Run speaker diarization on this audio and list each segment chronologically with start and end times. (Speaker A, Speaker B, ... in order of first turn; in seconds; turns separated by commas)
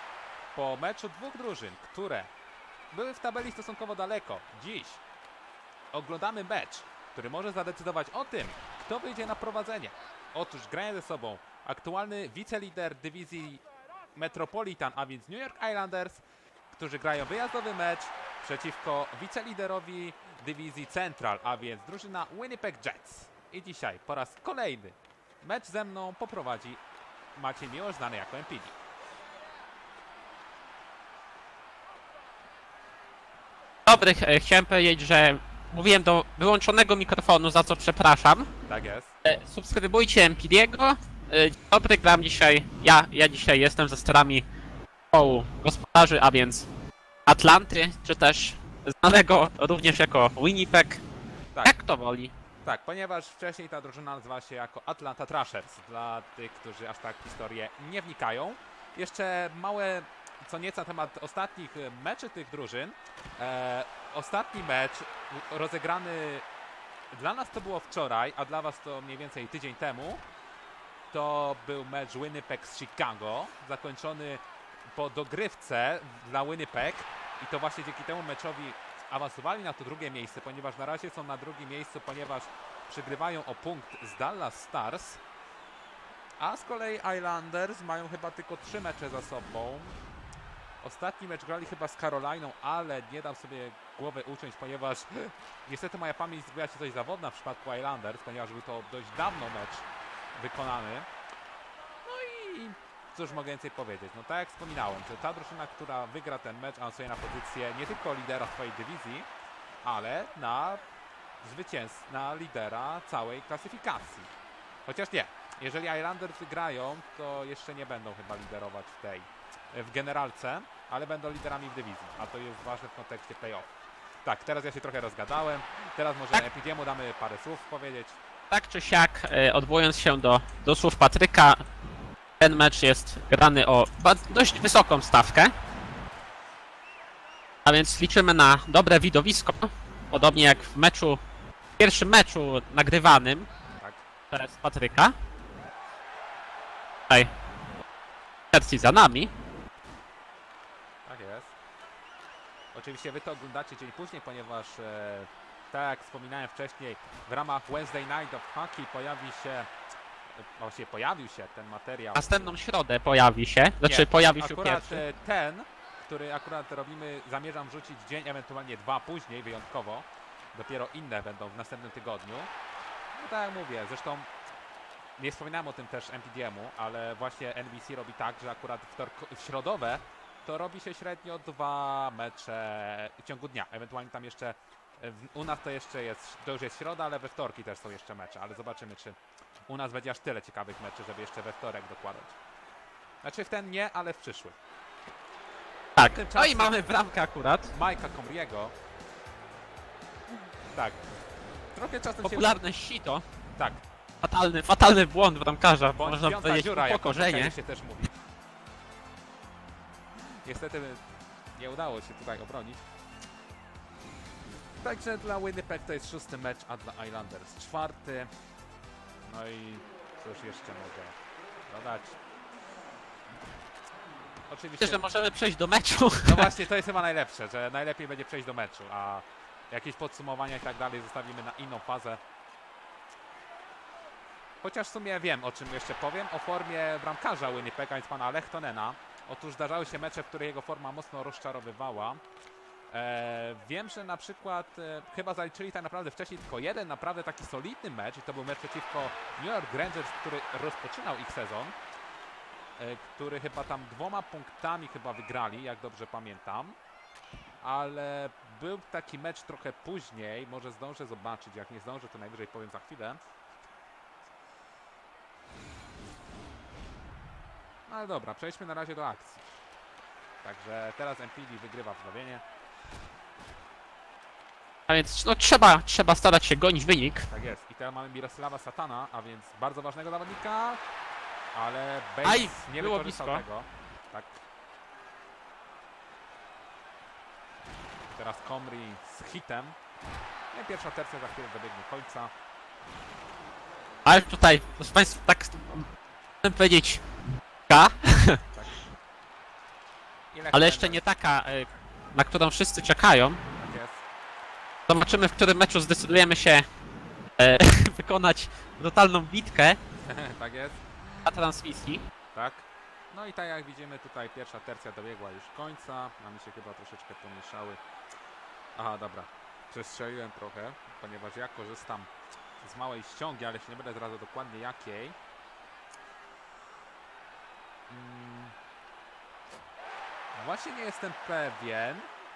Speaker A: 0.5-2.3, Speaker A: 2.9-5.0, Speaker A: 5.9-13.6, Speaker A: 14.2-26.8, Speaker A: 27.4-28.8, Speaker B: 33.9-38.5, Speaker A: 38.7-39.1, Speaker B: 39.2-44.5, Speaker B: 45.1-46.7, Speaker B: 47.3-51.0, Speaker B: 51.6-52.3, Speaker A: 52.6-66.5, Speaker A: 67.1-70.2, Speaker A: 71.1-74.4, Speaker A: 74.9-85.2, Speaker A: 86.4-90.0, Speaker A: 90.8-101.1, Speaker A: 102.0-109.3, Speaker A: 109.8-110.8, Speaker A: 111.4-114.3, Speaker A: 114.9-123.7, Speaker A: 124.2-128.2, Speaker B: 128.5-131.6, Speaker B: 132.4-135.5, Speaker B: 137.7-141.2, Speaker B: 141.8-143.5, Speaker B: 144.3-145.1, Speaker B: 148.5-149.3, Speaker A: 151.1-151.5, Speaker A: 152.7-159.7, Speaker A: 160.3-162.6, Speaker B: 162.1-165.0, Speaker A: 163.8-172.5, Speaker A: 173.2-174.3, Speaker A: 175.2-189.2, Speaker A: 189.7-192.3, Speaker A: 193.2-194.6, Speaker B: 196.0-197.7, Speaker A: 196.0-196.8, Speaker A: 197.7-198.7, Speaker A: 200.7-201.0, Speaker A: 201.7-202.6, Speaker B: 202.2-203.2, Speaker B: 204.2-207.6, Speaker A: 206.0-208.2, Speaker A: 210.2-211.0, Speaker A: 211.6-212.8, Speaker A: 214.8-218.3, Speaker A: 219.2-221.2, Speaker A: 221.7-222.2, Speaker A: 224.5-225.0, Speaker B: 224.8-226.5, Speaker A: 226.2-232.2, Speaker A: 234.6-242.2, Speaker A: 242.9-251.7, Speaker A: 252.8-256.8, Speaker A: 257.6-263.2, Speaker A: 267.9-269.4, Speaker A: 270.4-272.4, Speaker B: 274.9-277.3, Speaker A: 277.3-280.8, Speaker A: 281.5-284.4, Speaker B: 282.2-283.4, Speaker A: 288.1-289.8, Speaker A: 290.5-292.3, Speaker B: 294.1-295.9, Speaker B: 296.4-297.0, Speaker B: 297.7-298.4, Speaker A: 298.5-298.8, Speaker A: 300.3-301.1, Speaker B: 300.5-303.4, Speaker A: 303.6-304.0, Speaker B: 304.9-306.7, Speaker B: 307.4-309.8, Speaker A: 310.1-311.3, Speaker B: 311.3-312.0, Speaker A: 312.3-317.8, Speaker A: 318.8-325.2, Speaker A: 327.9-328.6, Speaker A: 330.3-332.1